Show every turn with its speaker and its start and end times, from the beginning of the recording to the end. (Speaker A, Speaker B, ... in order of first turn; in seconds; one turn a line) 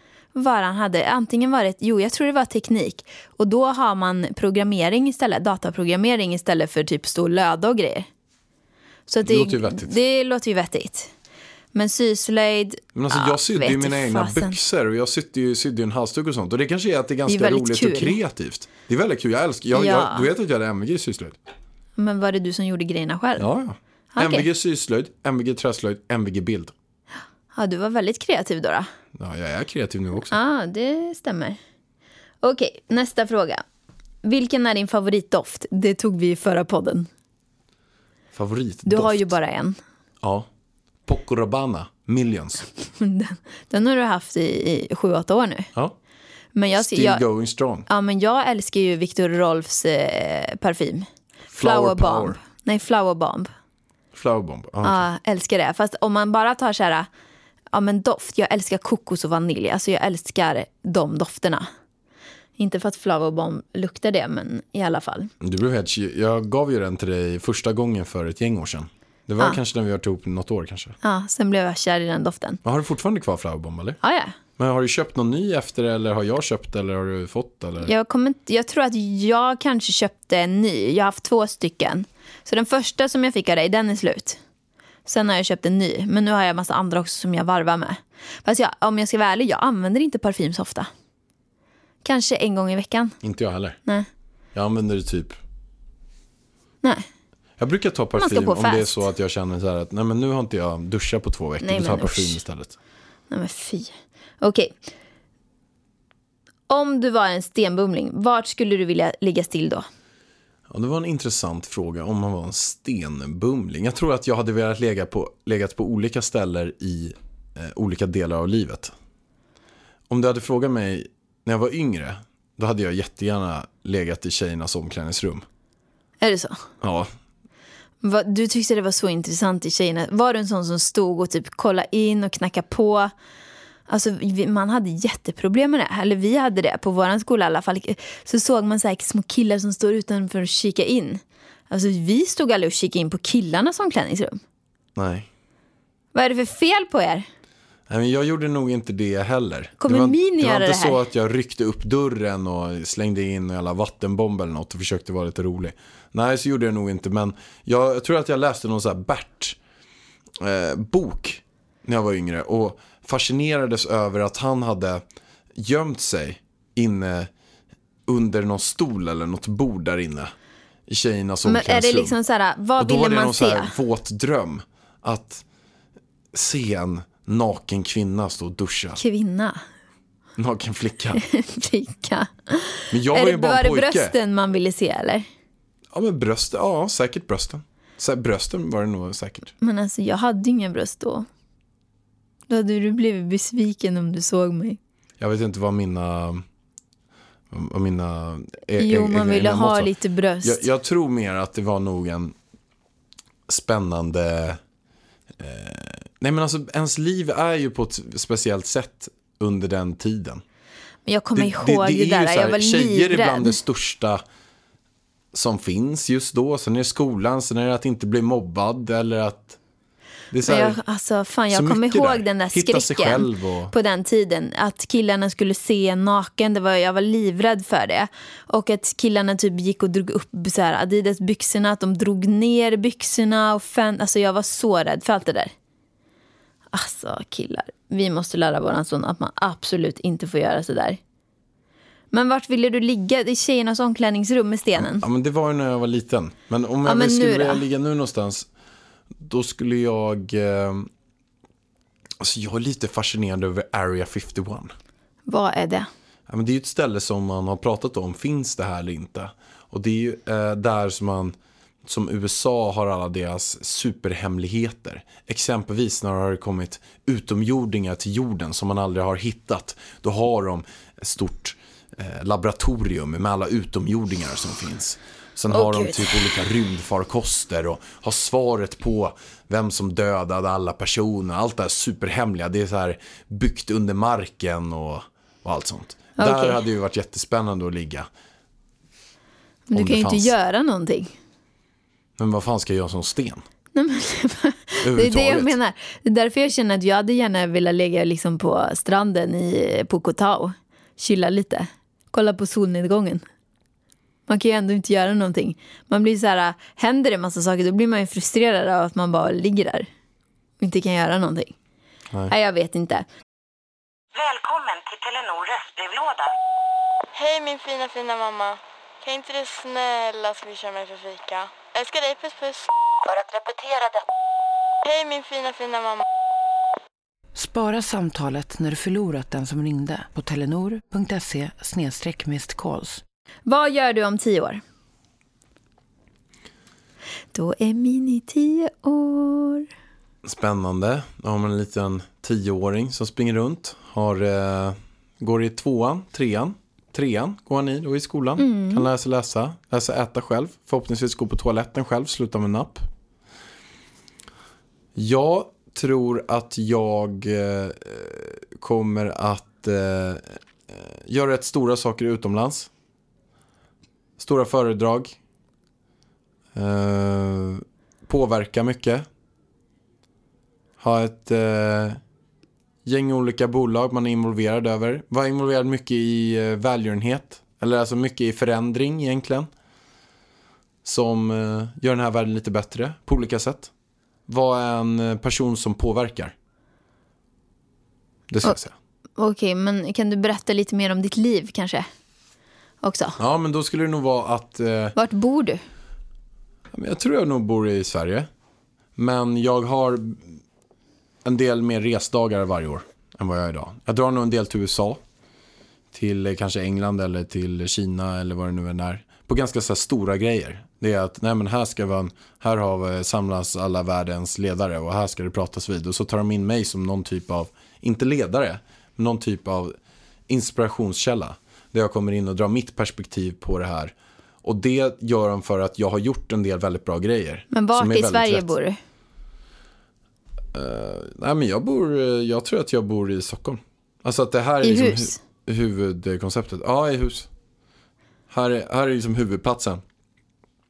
Speaker A: 0.3-8.1
Speaker A: 9.1-11.1
Speaker B: 9.2-9.9
Speaker A: 11.7-14.6
Speaker B: 12.9-21.4
Speaker A: 17.3-18.1
Speaker A: 19.7-20.2
Speaker A: 22.0-23.4
Speaker B: 23.4-26.7
Speaker A: 24.1-24.4
Speaker A: 27.5-28.9
Speaker B: 29.1-30.3
Speaker A: 30.3-31.6
Speaker A: 32.4-33.6
Speaker A: 34.2-37.1
Speaker B: 38.3-39.3
Speaker A: 38.9-39.8
Speaker B: 40.2-40.5
Speaker B: 41.0-42.7
Speaker A: 43.0-45.7
Speaker A: 46.5-47.2
Speaker B: 46.8-47.9
Speaker A: 47.9-51.1
Speaker B: 51.5-52.4
Speaker A: 51.6-53.5
Speaker B: 54.1-55.0
Speaker A: 54.8-57.1
Speaker A: 57.7-61.6
Speaker A: 62.6-65.3
Speaker B: 65.4-71.0
Speaker A: 71.0-72.6
Speaker B: 72.6-74.0
Speaker A: 74.0-74.3
Speaker B: 74.6-77.9
Speaker A: 77.8-84.4
Speaker A: 85.0-90.9
Speaker A: 92.0-93.2
Speaker B: 93.2-93.8
Speaker B: 94.5-95.4
Speaker B: 97.6-102.7
Speaker A: 98.2-99.0
Speaker A: 101.6-102.4
Speaker A: 103.3-104.7
Speaker A: 106.7-109.8
Speaker B: 110.7-118.9
Speaker B: 120.1-125.4
Speaker A: 126.2-126.6
Speaker B: 126.8-127.1
Speaker A: 128.0-133.1
Speaker A: 133.9-144.4
Speaker B: 144.9-145.3
Speaker A: 146.1-147.2
Speaker B: 147.9-159.6
Speaker A: 149.8-151.0
Speaker B: 160.4-165.0
Speaker B: 165.5-167.3
Speaker B: 168.1-170.3
Speaker B: 170.9-172.1
Speaker A: 171.4-173.7
Speaker B: 172.8-175.4
Speaker B: 176.3-179.0
Speaker A: 179.0-179.6
Speaker B: 180.4-181.2
Speaker A: 181.2-185.3
Speaker B: 182.9-184.1
Speaker B: 185.9-189.5
Speaker A: 189.6-191.3
Speaker A: 192.5-194.8
Speaker B: 195.2-196.4
Speaker B: 197.5-199.9
Speaker A: 198.8-200.7
Speaker B: 200.4-202.3
Speaker B: 203.5-204.6
Speaker B: 205.4-210.4
Speaker A: 211.1-213.6
Speaker B: 211.3-214.2
Speaker B: 215.3-219.6
Speaker B: 220.3-220.8
Speaker A: 220.4-235.5
Speaker B: 221.5-223.7
Speaker A: 236.7-241.0
Speaker A: 242.1-245.0
Speaker B: 244.8-248.5
Speaker A: 246.8-247.6
Speaker B: 249.2-250.9
Speaker B: 252.2-254.7
Speaker A: 255.3-255.9
Speaker B: 256.3-288.1
Speaker A: 275.5-276.2
Speaker A: 286.2-286.6
Speaker A: 289.7-291.1
Speaker B: 289.7-290.3
Speaker B: 292.2-293.4
Speaker A: 293.7-303.2
Speaker B: 294.8-295.6
Speaker A: 304.3-309.9
Speaker A: 310.6-311.5
Speaker A: 312.3-313.1
Speaker C: 314.1-316.3
Speaker D: 317.1-322.7
Speaker D: 324.8-326.0
Speaker E: 327.3-333.0
Speaker A: 333.5-334.6
Speaker A: 337.3-339.6
Speaker B: 340.2-352.9
Speaker A: 348.4-348.9
Speaker B: 354.9-362.7
Speaker B: 364.2-365.2
Speaker B: 366.5-369.1
Speaker B: 370.8-372.0
Speaker B: 372.8-379.5
Speaker B: 380.8-383.7
Speaker B: 384.3-386.3
Speaker B: 388.3-388.7
Speaker A: 389.2-391.9
Speaker A: 392.8-393.2
Speaker B: 393.2-394.9
Speaker A: 394.9-395.6
Speaker B: 396.7-398.3
Speaker B: 399.0-400.3
Speaker B: 401.2-405.0
Speaker B: 405.9-419.7
Speaker B: 420.3-428.5
Speaker A: 427.5-428.8
Speaker B: 430.5-437.3
Speaker A: 434.6-435.2
Speaker B: 438.3-439.8